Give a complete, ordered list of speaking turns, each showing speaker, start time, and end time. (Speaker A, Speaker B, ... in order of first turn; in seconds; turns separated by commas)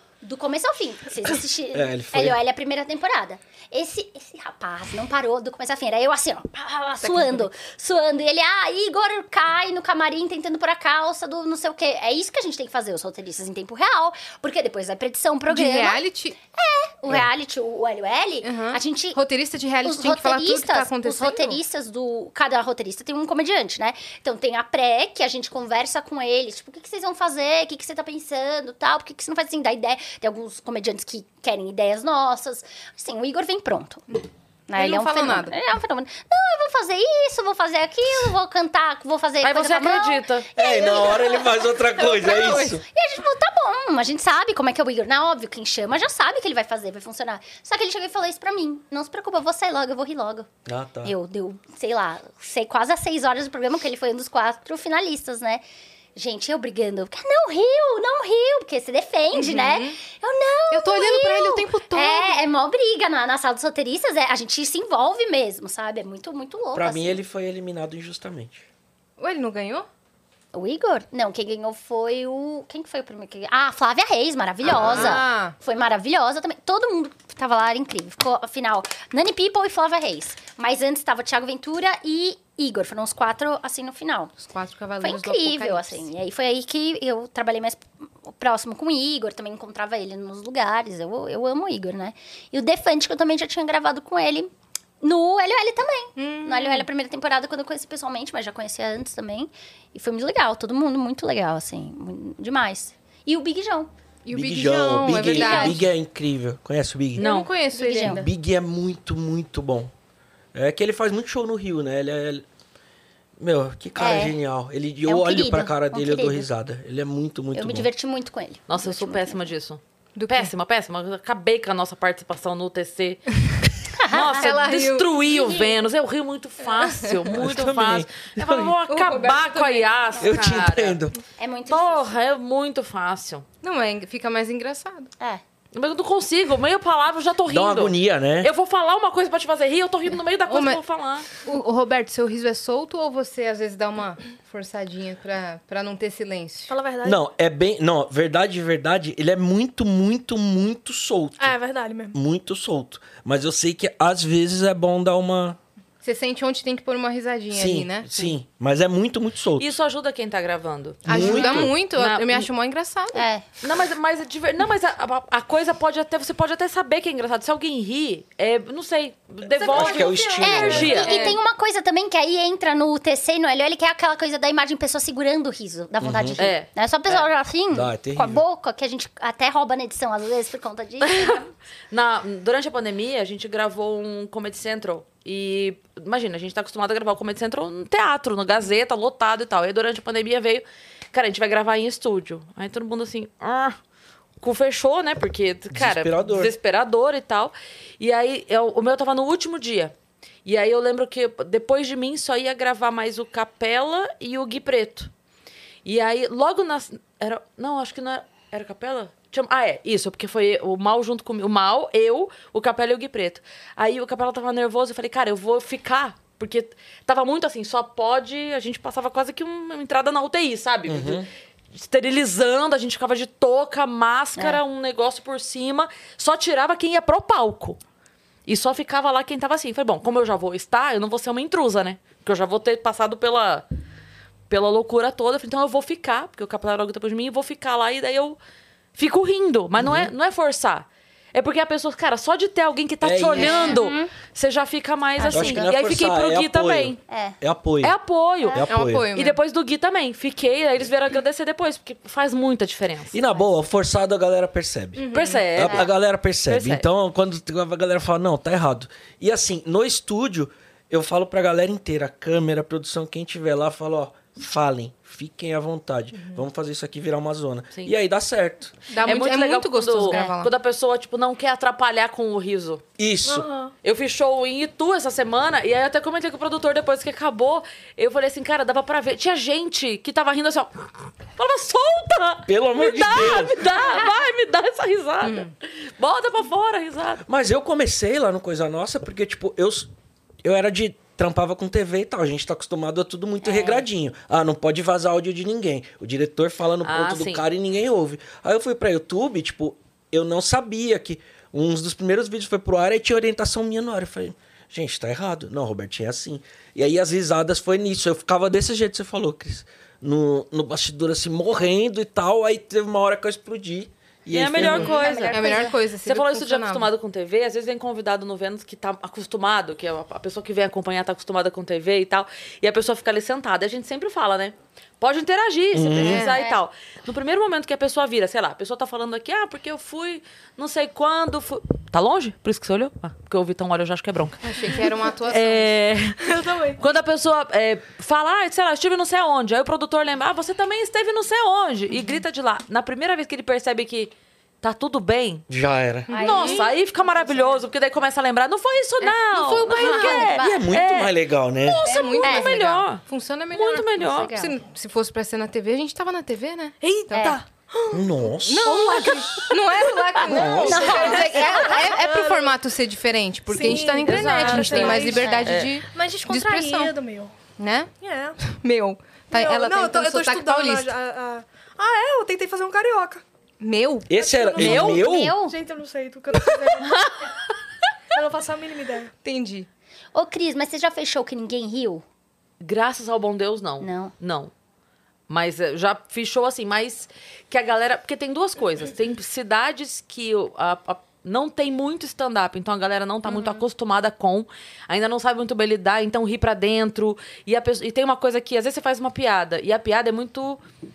Speaker A: 0.2-19.2, Speaker B: 1.7-2.4, Speaker C: 7.0-7.5, Speaker C: 15.5-16.4, Speaker C: 18.4-21.6, Speaker A: 19.8-34.0, Speaker A: 34.7-50.5, Speaker C: 34.7-35.6, Speaker D: 39.4-40.5, Speaker B: 40.5-42.8, Speaker C: 42.2-42.6, Speaker B: 50.6-51.1, Speaker A: 51.0-55.6, Speaker A: 56.1-67.2, Speaker C: 59.3-60.0, Speaker C: 60.7-62.3, Speaker B: 66.7-68.7, Speaker C: 69.2-69.9, Speaker A: 70.5-84.3, Speaker C: 74.7-75.5, Speaker C: 84.4-86.0, Speaker A: 85.0-94.5, Speaker A: 95.0-103.9, Speaker C: 96.2-96.9, Speaker C: 104.2-105.8, Speaker B: 104.3-107.2, Speaker A: 105.2-105.8, Speaker D: 107.2-107.5, Speaker C: 107.2-108.3, Speaker A: 107.7-108.2, Speaker B: 108.0-109.9, Speaker B: 110.5-112.4, Speaker B: 113.4-117.9, Speaker A: 114.0-114.4, Speaker A: 115.0-116.5, Speaker A: 117.5-119.5, Speaker D: 118.7-123.3, Speaker C: 120.2-120.5, Speaker A: 124.0-124.5, Speaker D: 124.1-131.0, Speaker C: 124.1-125.1, Speaker A: 125.2-125.8, Speaker C: 126.8-127.3, Speaker B: 127.3-128.7, Speaker C: 128.9-129.9, Speaker B: 130.2-131.2, Speaker A: 131.4-132.2, Speaker D: 131.7-133.4, Speaker C: 133.6-135.1, Speaker D: 135.7-141.3, Speaker B: 137.5-138.5, Speaker C: 140.5-140.8, Speaker C: 141.4-146.7, Speaker E: 146.7-147.2, Speaker B: 147.0-151.6, Speaker E: 151.4-152.2, Speaker B: 152.1-155.6, Speaker C: 156.0-158.3, Speaker B: 157.5-159.7, Speaker D: 159.6-162.5, Speaker B: 161.1-161.8, Speaker C: 161.1-163.2, Speaker A: 163.1-163.4, Speaker D: 163.6-171.4, Speaker E: 169.6-171.0, Speaker B: 169.7-171.0, Speaker A: 170.4-181.5, Speaker C: 170.9-171.4, Speaker B: 176.0-176.4, Speaker D: 176.4-176.7, Speaker B: 177.7-178.4, Speaker D: 181.0-193.8, Speaker D: 194.4-199.9, Speaker B: 195.7-196.5, Speaker D: 200.4-205.1, Speaker D: 205.8-227.8, Speaker B: 220.9-221.3, Speaker D: 228.4-233.6, Speaker D: 234.5-238.4, Speaker D: 238.9-247.0, Speaker B: 239.8-240.1, Speaker B: 243.0-243.8, Speaker A: 243.4-244.1, Speaker A: 245.2-245.7, Speaker B: 245.3-247.9, Speaker A: 247.1-247.4, Speaker D: 247.8-253.2, Speaker A: 248.4-248.7, Speaker B: 248.5-249.1, Speaker C: 248.7-249.4, Speaker B: 253.1-268.7, Speaker C: 255.0-255.4, Speaker D: 255.1-255.9, Speaker D: 256.5-256.8, Speaker C: 268.9-270.5, Speaker D: 269.0-272.8, Speaker A: 270.1-270.4, Speaker B: 273.0-273.5, Speaker E: 273.2-273.7, Speaker D: 273.8-280.8, Speaker D: 281.4-287.2, Speaker B: 282.5-283.6, Speaker C: 285.2-285.5, Speaker B: 287.2-289.9, Speaker B: 290.4-314.9, Speaker A: 293.4-293.8, Speaker D: 296.8-297.4, Speaker D: 314.3-345.5, Speaker C: 314.6-316.9, Speaker A: 314.6-315.8, Speaker B: 325.7-326.2, Speaker C: 326.0-326.4, Speaker A: 326.3-326.6, Speaker C: 334.4-335.8, Speaker E: 336.2-336.8, Speaker B: 345.5-346.1, Speaker C: 346.1-346.7, Speaker A: 346.1-346.7, Speaker D: 346.2-354.5, Speaker E: 346.2-346.6, Speaker C: 349.0-350.2, Speaker A: 349.6-350.7, Speaker E: 349.7-350.1, Speaker B: 350.3-351.8, Speaker C: 351.8-357.3, Speaker A: 352.2-352.5, Speaker E: 356.8-359.8, Speaker A: 357.1-357.4, Speaker B: 357.9-359.1, Speaker C: 358.4-366.9, Speaker B: 360.2-361.1, Speaker E: 360.3-362.6, Speaker A: 360.6-362.0, Speaker E: 363.5-367.3, Speaker D: 364.1-365.8, Speaker A: 364.7-365.6, Speaker C: 367.6-370.9, Speaker E: 368.0-368.4, Speaker E: 369.3-373.2, Speaker C: 373.6-374.2, Speaker B: 374.1-375.4, Speaker E: 374.2-377.0, Speaker D: 374.6-375.0, Speaker A: 374.6-375.6, Speaker D: 376.8-377.2, Speaker E: 378.1-379.1, Speaker C: 379.2-379.7, Speaker A: 380.1-382.0, Speaker D: 382.6-384.5, Speaker A: 383.8-384.1, Speaker D: 385.3-400.6